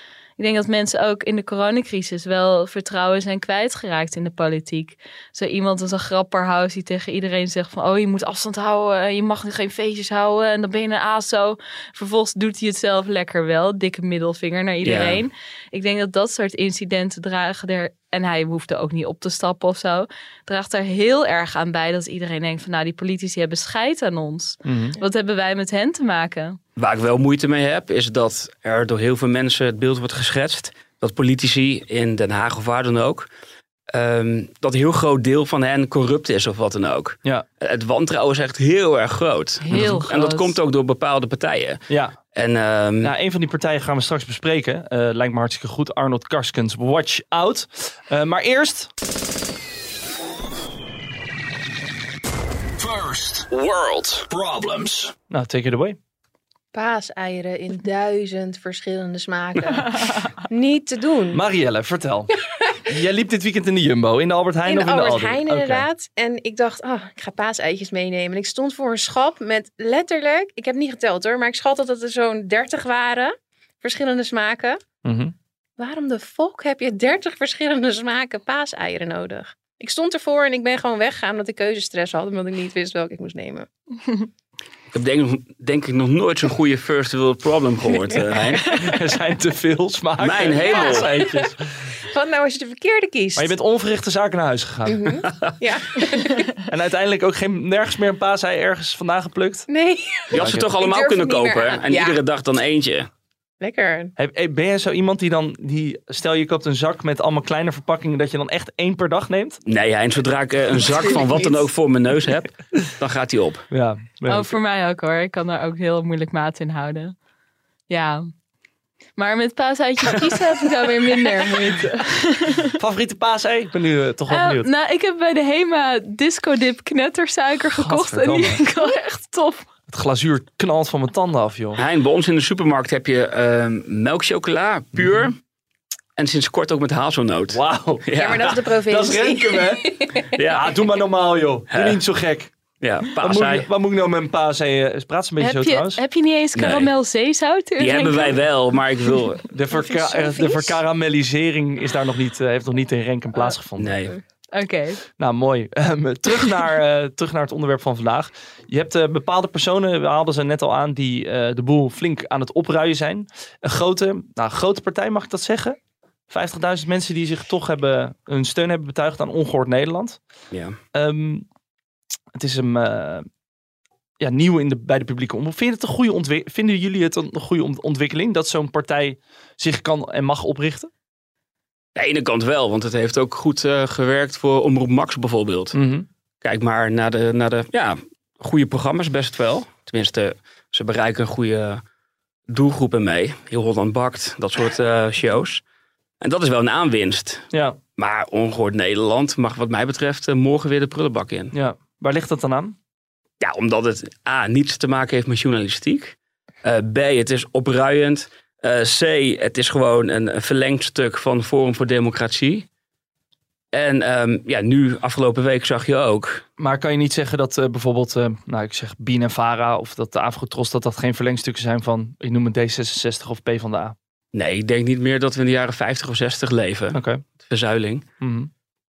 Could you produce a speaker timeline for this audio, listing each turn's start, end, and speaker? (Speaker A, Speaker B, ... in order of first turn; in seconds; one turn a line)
Speaker A: 0.4-26.6
Speaker B: 14.8-15.2
Speaker C: 24.6-25.0
Speaker B: 26.8-33.3
Speaker B: 33.9-43.1
Speaker A: 39.6-40.6
Speaker C: 39.7-40.0
Speaker C: 41.9-42.2
Speaker C: 43.0-48.9
Speaker D: 52.8-55.1
Speaker C: 53.8-54.2
Speaker C: 55.3-56.0
Speaker E: 56.7-61.4
Speaker C: 61.3-65.9
Speaker E: 62.5-62.8
Speaker E: 64.7-74.8
Speaker C: 75.0-75.3
Speaker E: 75.8-83.7
Speaker B: 84.9-88.8
Speaker C: 88.7-91.7
Speaker B: 90.2-91.1
Speaker E: 90.6-93.5
Speaker C: 93.4-95.1
Speaker E: 94.9-96.5
Speaker C: 96.7-99.7
Speaker E: 99.7-102.2
Speaker B: 100.3-103.1
Speaker C: 100.3-100.7
Speaker E: 103.6-104.1
Speaker C: 104.2-109.6
Speaker B: 109.7-113.7
Speaker E: 110.8-111.7
Speaker C: 113.7-114.5
Speaker A: 114.3-117.2
Speaker A: 117.9-118.3
Speaker A: 119.2-122.8
Speaker C: 122.7-124.7
Speaker A: 124.3-129.7
Speaker C: 127.8-128.6
Speaker C: 129.9-131.8
Speaker B: 131.8-135.4
Speaker C: 134.9-135.3
Speaker B: 136.2-138.5
Speaker C: 137.5-142.5
Speaker E: 138.1-140.4
Speaker B: 140.3-140.8
Speaker B: 141.7-142.0
Speaker B: 142.8-143.7
Speaker C: 143.2-146.0
Speaker A: 145.4-148.4
Speaker B: 146.6-146.9
Speaker B: 147.8-149.5
Speaker C: 149.5-153.9
Speaker E: 149.9-150.8
Speaker B: 153.8-154.2
Speaker A: 154.1-155.0
Speaker C: 155.2-165.8
Speaker C: 166.3-170.2
Speaker B: 170.5-170.8
Speaker C: 170.9-171.5
Speaker C: 172.3-173.3
Speaker C: 174.2-180.9
Speaker B: 181.9-185.8
Speaker C: 185.7-186.1
Speaker B: 186.4-191.8
Speaker B: 192.5-195.6
Speaker B: 196.2-201.5
Speaker C: 197.5-197.8
Speaker C: 201.5-202.8
Speaker B: 203.4-212.7
Speaker B: 213.7-216.4
Speaker C: 216.6-223.9
Speaker B: 224.3-228.1
Speaker C: 226.9-227.2
Speaker C: 228.2-228.5